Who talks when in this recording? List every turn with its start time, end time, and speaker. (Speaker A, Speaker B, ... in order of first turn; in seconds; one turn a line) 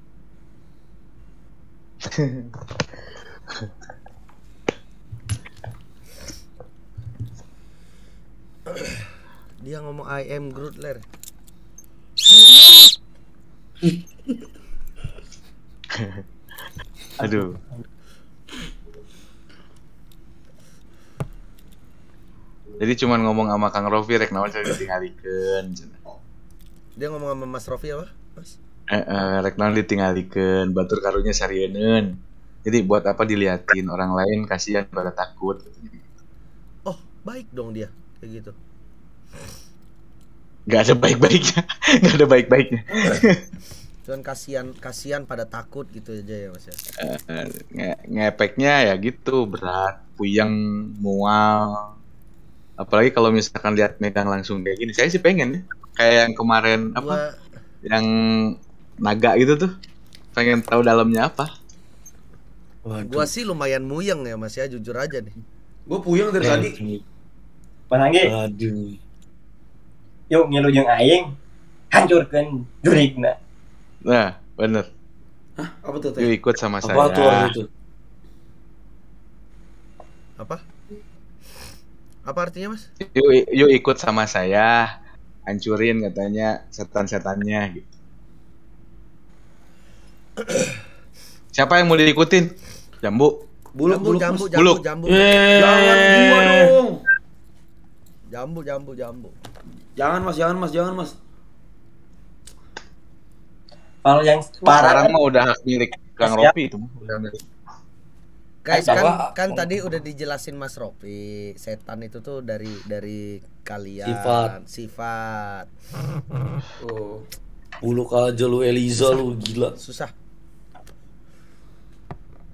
Speaker A: 2.1-2.5
Speaker B: 9.6-11.0
Speaker C: 13.8-14.3
Speaker A: 15.9-16.2
Speaker D: 17.2-17.4
Speaker A: 17.2-17.6
Speaker A: 22.8-26.0
Speaker B: 27.0-28.6
Speaker A: 28.9-35.9
Speaker B: 36.9-38.5
Speaker A: 40.7-43.4
Speaker B: 44.0-46.8
Speaker A: 47.0-51.9
Speaker A: 52.8-57.2
Speaker B: 56.9-57.4
Speaker A: 57.8-59.7
Speaker A: 60.4-61.5
Speaker C: 62.9-63.3
Speaker B: 63.0-65.3
Speaker E: 65.9-66.8
Speaker C: 66.4-67.0
Speaker D: 67.9-68.3
Speaker C: 68.2-69.0
Speaker D: 70.3-71.3
Speaker D: 71.9-73.3
Speaker A: 74.0-74.9
Speaker E: 75.6-76.3
Speaker A: 76.2-77.5
Speaker C: 76.8-77.7
Speaker B: 80.4-80.6
Speaker B: 82.2-82.9
Speaker A: 83.0-84.9
Speaker A: 85.5-87.8
Speaker A: 91.5-92.5
Speaker A: 93.0-93.4
Speaker E: 93.8-94.5
Speaker B: 93.9-95.3
Speaker A: 94.5-94.8
Speaker C: 95.1-96.7
Speaker E: 95.5-97.0
Speaker B: 98.3-99.3
Speaker E: 100.0-101.2
Speaker D: 104.0-105.1
Speaker A: 104.7-107.4
Speaker D: 106.2-106.5
Speaker B: 108.6-115.7
Speaker C: 108.7-109.7
Speaker C: 114.0-114.5
Speaker E: 116.8-117.2
Speaker C: 117.8-119.8
Speaker B: 119.8-120.1